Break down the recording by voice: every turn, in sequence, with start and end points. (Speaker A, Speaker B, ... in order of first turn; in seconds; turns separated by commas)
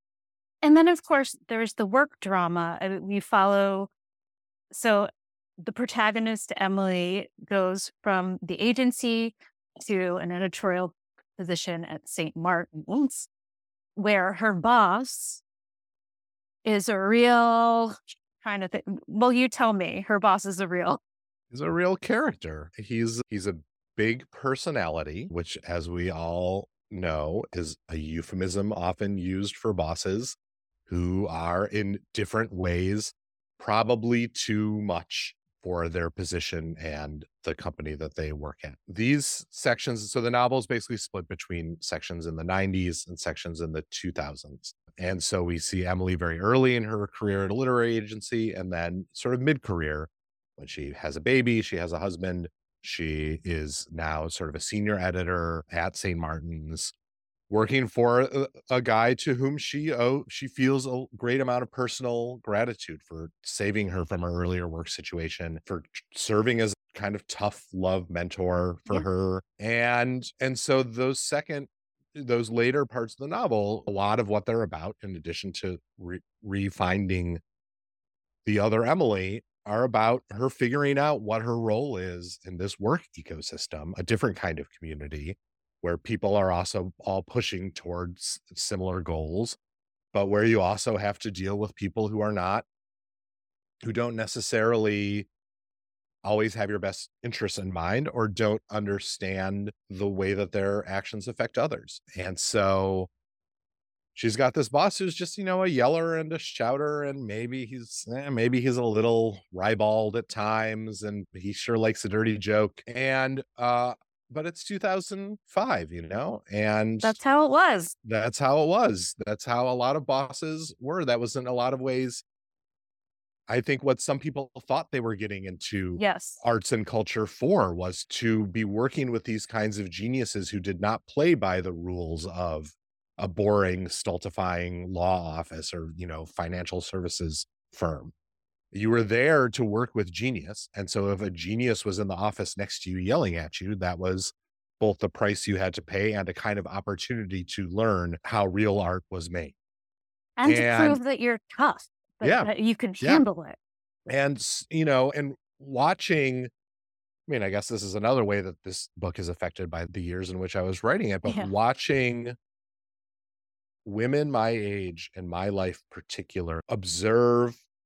Speaker A: 0.6-3.9, Speaker A: 4.7-5.1, Speaker A: 5.6-13.3, Speaker A: 14.0-15.4, Speaker A: 16.6-21.0, Speaker B: 21.5-30.4, Speaker B: 30.9-56.9, Speaker B: 57.5-77.4, Speaker B: 78.5-89.6, Speaker B: 90.1-92.7, Speaker B: 93.8-95.3, Speaker B: 96.2-103.1, Speaker B: 104.2-117.2, Speaker A: 117.0-117.9, Speaker B: 118.0-122.2, Speaker B: 123.5-138.1, Speaker A: 126.0-126.4, Speaker B: 138.7-149.6, Speaker A: 150.4-153.6, Speaker B: 150.4-151.0, Speaker B: 152.2-152.5, Speaker B: 154.1-156.5, Speaker B: 157.3-162.3, Speaker A: 161.2-161.5, Speaker B: 163.8-167.6